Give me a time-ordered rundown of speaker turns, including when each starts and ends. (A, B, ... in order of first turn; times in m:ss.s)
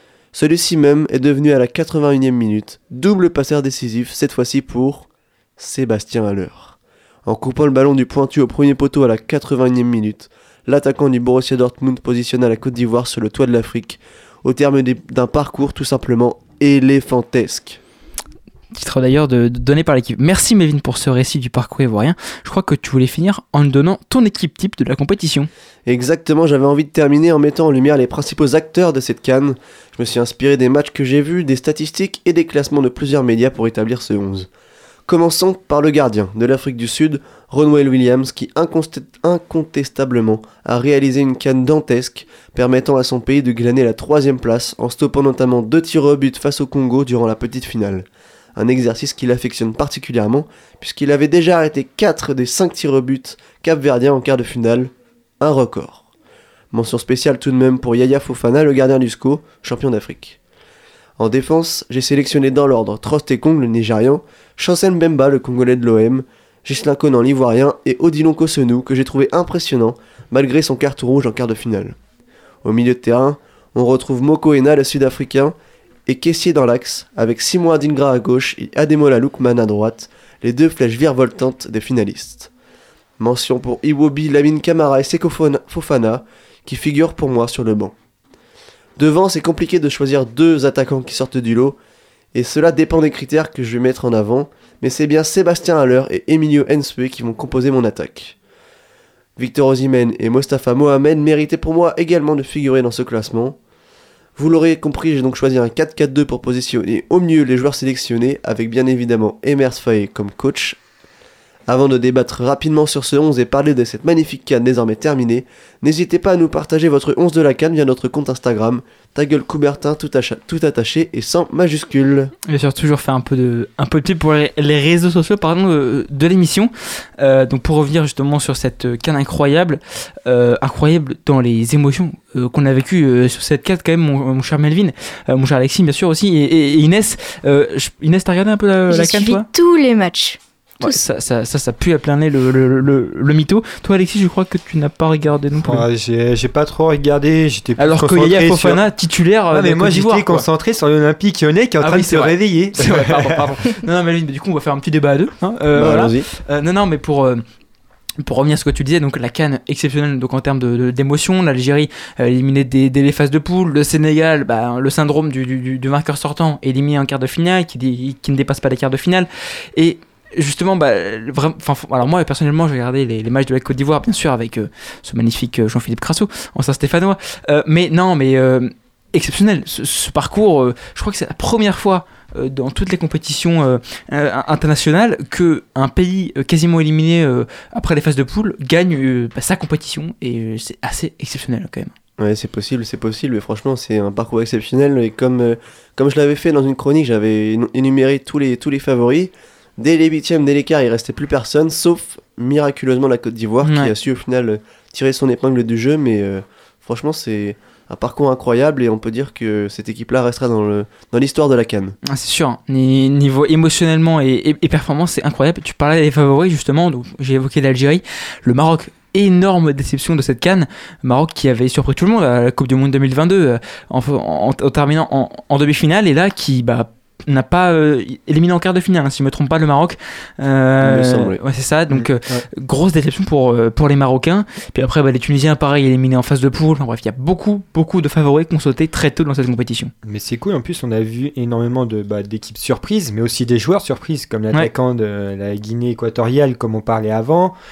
0:00.3-0:17.8 A
0:18.7-0:25.5 B
0:25.8-0:34.5 A
0:35.1-0:56.0 A
0:56.7-1:00.4 A
1:01.2-1:12.0 A
1:12.6-1:15.5 A
1:16.1-1:22.5 A
1:23.2-1:27.9 A
1:29.0-1:31.8 A
1:32.3-1:38.4 A
1:39.4-1:43.6 A
1:44.4-1:50.8 A
1:51.7-2:02.3 A
2:02.5-2:19.4 B
2:18.9-2:21.0 C
2:20.8-2:25.8 B
2:25.6-2:28.8 D
2:27.8-2:30.4 B
2:29.5-2:33.5 D
2:31.8-2:37.4 B
2:35.7-2:36.3 A
2:38.2-3:11.9 B
3:12.2-3:32.0 A
3:23.6-3:23.9 B
3:32.0-3:59.9 B
3:50.8-3:51.4 A
3:51.9-3:52.5 D
4:00.0-4:07.6 D